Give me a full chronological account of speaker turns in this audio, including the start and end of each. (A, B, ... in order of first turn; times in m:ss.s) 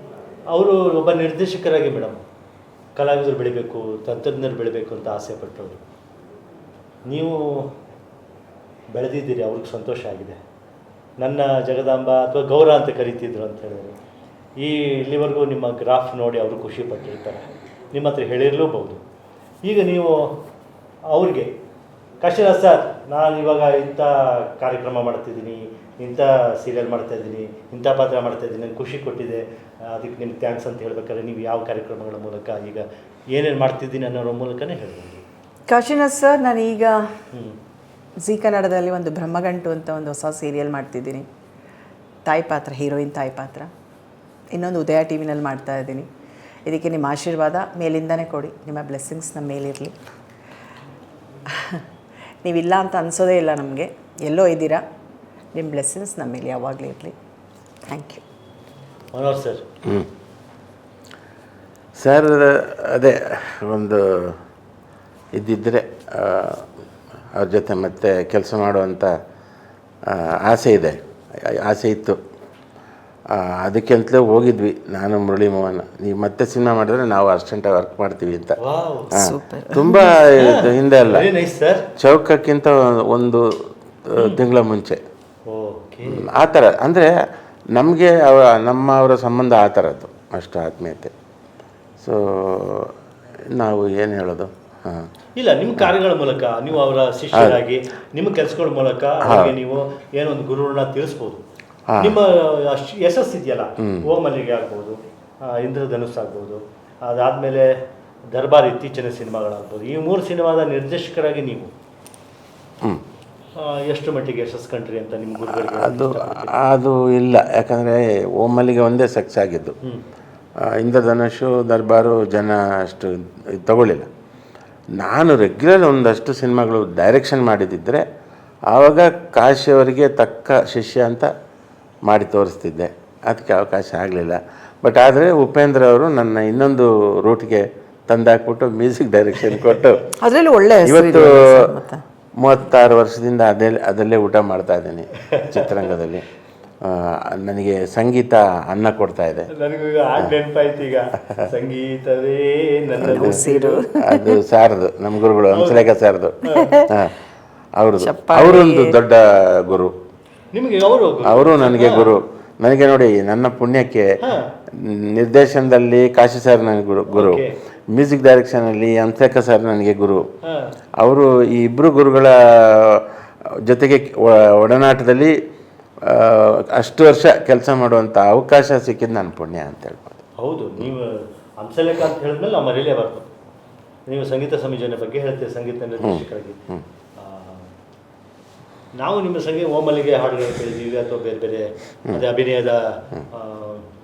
0:00.5-0:02.2 A
0:03.0-0:05.8 A
0:07.0-0:07.7 A
0:08.9-0:10.4 A
0:11.2-0:14.0 A
0:14.6-0:19.0 A
0:19.6-0:20.4 A
0:21.1-0:21.5 A
0:22.2-0:35.2 A
0:35.7-0:37.0 B
0:37.3-0:37.6 A
0:38.2-0:41.3 B
0:42.3-0:43.7 B
0:44.5-0:46.1 B
0:46.6-0:49.9 B
0:51.5-0:51.8 B
0:52.4-0:54.8 B
0:55.5-0:57.1 B
0:57.9-0:58.2 B
0:59.1-0:59.6 A
1:02.0-1:04.4 C
1:05.3-1:06.7 C
1:07.3-1:09.1 C
1:10.0-1:12.2 C
1:13.3-1:18.6 C
1:18.6-1:19.1 A
1:19.1-1:20.1 B
1:19.1-1:21.3 C
1:20.3-1:21.9 A
1:22.0-1:23.5 C
1:24.0-1:25.0 C
1:25.5-1:26.2 A
1:26.1-1:27.1 C
1:27.7-1:31.1 C
1:32.0-1:32.9 C
1:33.5-1:35.1 C
1:35.4-1:41.4 A
1:37.3-1:37.6 C
1:39.2-1:39.6 C
1:41.9-1:42.2 C
1:42.0-1:47.8 A
1:43.8-1:44.1 C
1:48.3-1:51.7 A
1:53.6-1:56.6 A
1:55.5-1:59.8 C
2:00.6-2:04.1 C
2:05.0-2:08.0 C
2:08.7-2:11.3 C
2:12.1-2:20.0 C
2:20.2-2:22.0 B
2:20.8-2:21.7 C
2:22.4-2:26.2 C
2:25.3-2:25.7 A
2:26.8-2:29.5 C
2:29.5-2:33.8 A
2:33.0-2:34.4 B
2:33.1-2:33.4 C
2:34.0-2:37.1 C
2:35.5-2:35.9 A
2:36.4-2:36.8 A
2:36.5-2:36.9 B
2:37.8-2:39.9 C
2:38.0-2:39.0 B
2:40.5-2:42.1 A
2:41.2-2:44.2 C
2:44.2-2:44.5 A
2:44.7-2:50.2 C
2:47.1-2:47.5 A
2:50.4-2:50.7 A
2:51.0-2:53.1 C
2:53.6-2:55.4 C
2:56.0-3:00.2 C
3:00.4-3:03.3 A
3:04.1-3:06.6 A
3:06.0-3:06.8 C
3:07.2-3:07.7 A
3:09.0-3:13.9 A